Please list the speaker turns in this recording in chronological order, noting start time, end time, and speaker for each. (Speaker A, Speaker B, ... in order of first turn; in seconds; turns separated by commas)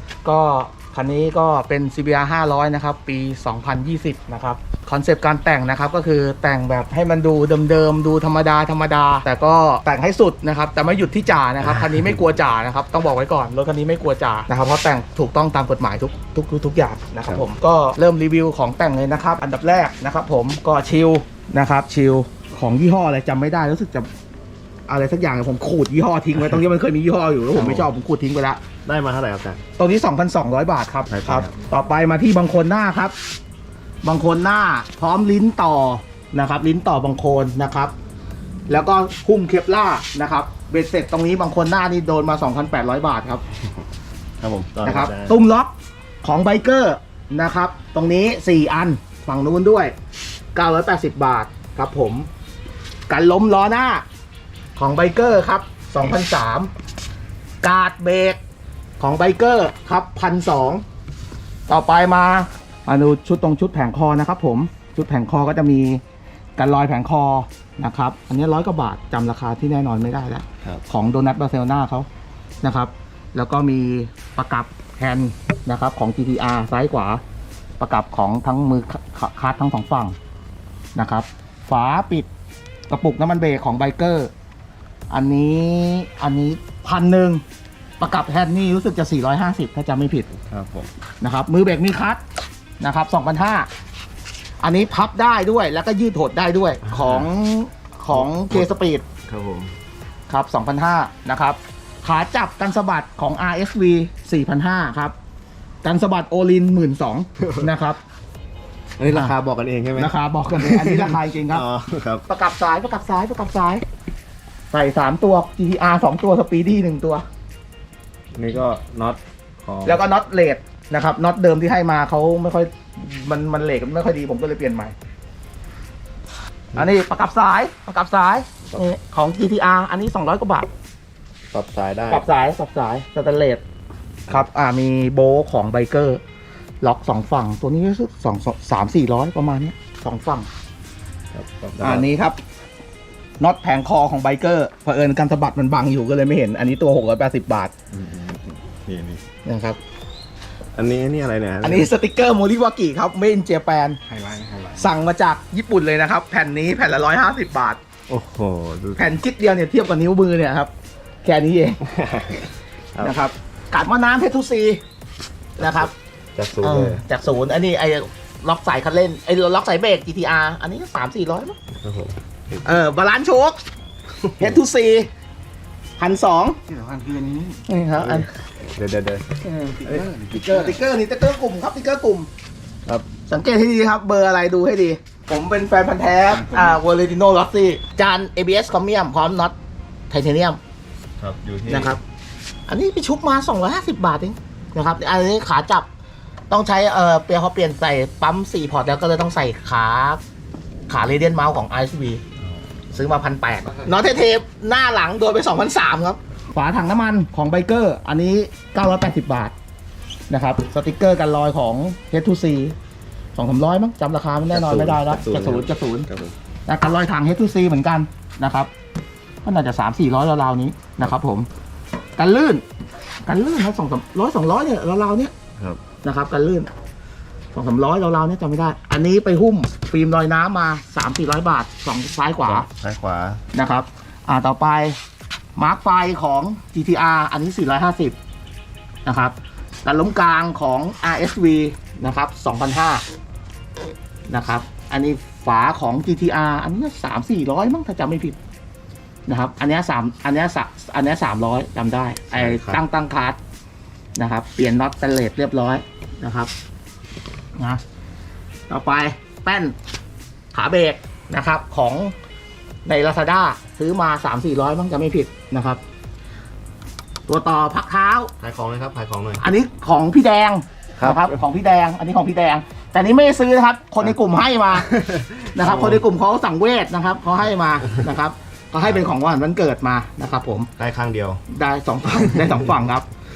Speaker A: 0.2-24.1, Speaker A: 24.9-28.6, Speaker B: 27.6-27.9, Speaker B: 28.9-29.6, Speaker A: 29.8-33.1, Speaker B: 31.1-31.5, Speaker A: 34.0-37.9, Speaker A: 38.7-43.4, Speaker B: 44.4-45.4, Speaker A: 44.8-45.7, Speaker A: 46.2-49.9, Speaker A: 50.5-52.3, Speaker A: 53.1-54.0, Speaker A: 54.8-56.7, Speaker A: 57.6-58.4, Speaker A: 59.0-60.8, Speaker A: 61.7-66.0, Speaker A: 66.6-72.1, Speaker A: 72.6-77.2, Speaker A: 77.8-80.2, Speaker A: 81.0-82.3, Speaker A: 82.9-84.3, Speaker A: 85.1-87.4, Speaker A: 88.0-90.3, Speaker B: 90.5-90.9, Speaker A: 91.2-92.2, Speaker A: 92.8-93.7, Speaker A: 94.6-99.0, Speaker B: 96.8-97.3, Speaker B: 98.1-98.7, Speaker B: 99.3-99.7, Speaker A: 100.3-105.2, Speaker A: 105.8-108.0, Speaker B: 107.4-107.7, Speaker B: 109.0-112.3, Speaker A: 109.1-109.3, Speaker A: 110.0-111.7, Speaker A: 112.3-113.8, Speaker A: 114.7-117.2, Speaker B: 118.3-120.0, Speaker A: 119.8-124.9, Speaker A: 126.8-130.7, Speaker B: 131.5-132.3, Speaker A: 132.1-133.6, Speaker A: 134.3-136.2, Speaker A: 136.8-140.5, Speaker B: 141.3-142.1, Speaker A: 141.8-142.4, Speaker A: 143.4-147.7, Speaker B: 147.9-149.2, Speaker A: 149.4-149.8, Speaker B: 150.8-151.9, Speaker A: 151.6-154.0, Speaker C: 154.2-154.6, Speaker B: 154.2-154.5, Speaker A: 154.8-157.8, Speaker B: 158.1-159.1, Speaker A: 159.0-160.7, Speaker A: 161.2-161.8, Speaker B: 161.9-163.1, Speaker A: 163.0-164.8, Speaker A: 165.6-165.9, Speaker B: 165.6-167.0, Speaker A: 166.6-171.6, Speaker B: 171.8-172.2, Speaker A: 172.6-173.6, Speaker B: 174.2-174.6, Speaker A: 174.4-175.1, Speaker A: 176.0-176.8, Speaker C: 176.7-177.5, Speaker A: 177.4-178.3, Speaker B: 178.0-180.6, Speaker A: 179.6-182.3, Speaker C: 179.8-180.5, Speaker A: 183.3-189.6, Speaker A: 190.1-190.6, Speaker B: 191.2-192.0, Speaker A: 191.7-192.0, Speaker A: 192.7-195.9, Speaker A: 196.5-200.2, Speaker A: 200.9-202.2, Speaker A: 202.9-209.5, Speaker A: 210.3-212.8, Speaker A: 213.4-216.1, Speaker B: 214.5-216.3, Speaker A: 216.7-218.7, Speaker A: 219.4-221.5, Speaker A: 222.2-222.6, Speaker A: 223.3-225.3, Speaker A: 226.0-226.7, Speaker A: 227.5-232.7, Speaker B: 232.4-233.4, Speaker A: 233.5-235.0, Speaker A: 235.6-238.2, Speaker A: 239.1-243.0, Speaker A: 244.3-248.4, Speaker A: 249.3-253.4, Speaker B: 252.3-252.8, Speaker A: 254.2-256.5, Speaker A: 258.7-259.8, Speaker A: 260.5-262.1, Speaker A: 262.9-265.8, Speaker A: 267.3-268.3, Speaker B: 268.4-269.4, Speaker A: 269.4-274.9, Speaker B: 271.0-271.4, Speaker B: 274.9-276.0, Speaker A: 275.5-280.7, Speaker B: 280.8-281.4, Speaker A: 281.5-283.1